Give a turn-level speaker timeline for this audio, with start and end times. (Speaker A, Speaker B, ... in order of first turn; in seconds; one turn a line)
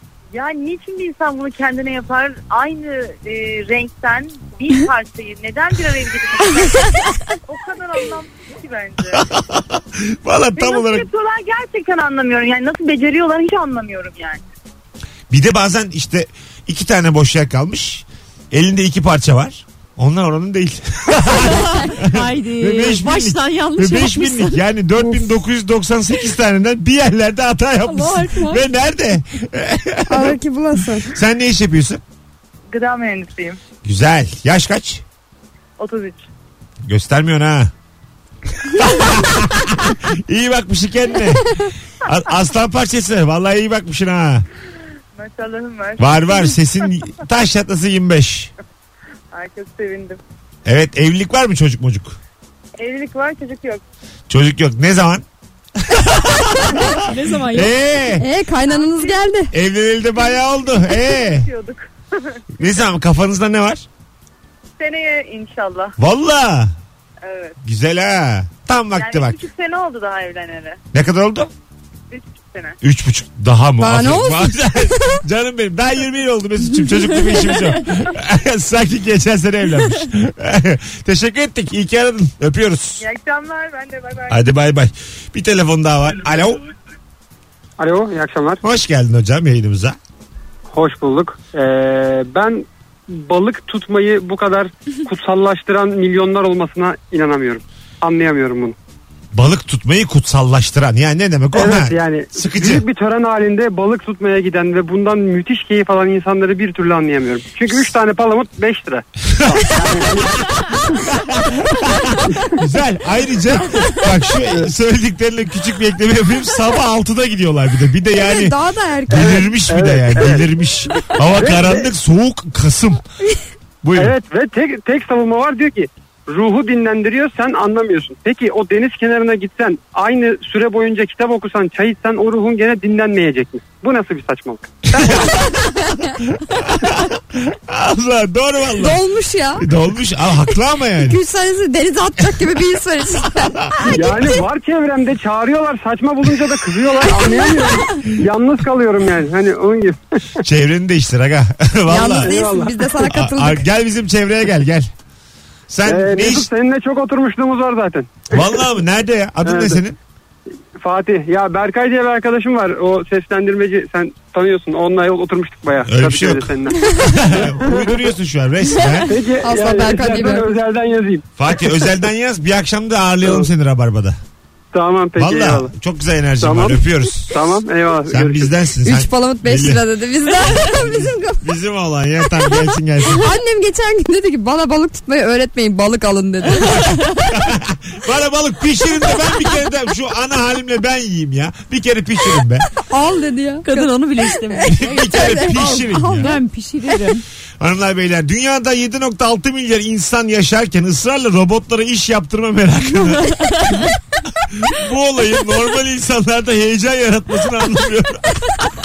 Speaker A: 0.3-9.3
Speaker B: 9.1-11.1
Speaker A: 10.5-14.4
Speaker B: 15.3-30.4
Speaker C: 21.3-24.6
Speaker C: 27.8-28.6
Speaker D: 30.1-31.1
Speaker B: 31.0-32.0
Speaker A: 32.7-33.6
Speaker B: 33.8-35.0
Speaker A: 35.8-36.2
Speaker B: 36.8-37.7
Speaker B: 38.7-44.5
Speaker A: 45.1-46.6
Speaker B: 46.0-48.5
Speaker A: 49.3-50.2
Speaker B: 50.6-52.2
Speaker A: 52.8-53.8
Speaker B: 54.3-55.2
Speaker B: 55.8-58.2
Speaker C: 56.9-57.7
Speaker D: 58.2-59.5
Speaker A: 58.5-59.2
Speaker B: 59.5-61.5
Speaker A: 60.3-62.4
Speaker B: 62.6-63.9
Speaker A: 64.8-65.9
Speaker B: 66.0-66.7
Speaker A: 67.2-67.6
Speaker B: 67.6-69.4
Speaker A: 68.9-70.8
Speaker B: 70.9-71.5
Speaker A: 72.1-72.8
Speaker B: 72.8-83.0
Speaker D: 73.8-75.2
Speaker A: 83.0-84.4
Speaker B: 84.3-86.6
Speaker E: 87.8-88.6
Speaker B: 88.6-90.0
Speaker E: 90.7-98.8
Speaker B: 99.3-102.8
Speaker E: 101.5-111.0
Speaker B: 109.3-110.2
Speaker B: 111.0-118.5
Speaker D: 118.2-119.5
Speaker B: 119.1-123.0
Speaker E: 119.2-120.4
Speaker E: 121.2-121.9
Speaker B: 123.8-124.1
Speaker E: 124.0-135.3
Speaker B: 134.9-139.0
Speaker D: 138.8-139.7
Speaker B: 139.6-141.2
Speaker D: 141.0-144.3
Speaker B: 143.3-144.2
Speaker E: 143.9-150.1
Speaker B: 150.4-152.3
Speaker D: 151.9-153.7
Speaker E: 152.1-152.8
Speaker B: 153.0-154.9
Speaker B: 155.7-156.5
Speaker E: 155.8-158.6
Speaker B: 158.3-160.0
Speaker E: 159.4-159.8
Speaker E: 160.8-168.0
Speaker B: 165.8-169.2
Speaker E: 169.1-171.9
Speaker D: 169.4-170.6
Speaker B: 171.4-174.2
Speaker E: 174.7-175.7
Speaker B: 175.2-177.3
Speaker E: 176.4-178.5
Speaker B: 178.1-179.8
Speaker D: 178.8-181.5
Speaker B: 180.4-183.3
Speaker D: 183.0-187.0
Speaker C: 186.7-187.0
Speaker B: 186.9-192.7
Speaker D: 192.9-196.4
Speaker C: 193.6-197.2
Speaker B: 194.6-196.4
Speaker B: 197.6-208.5
Speaker C: 203.2-203.9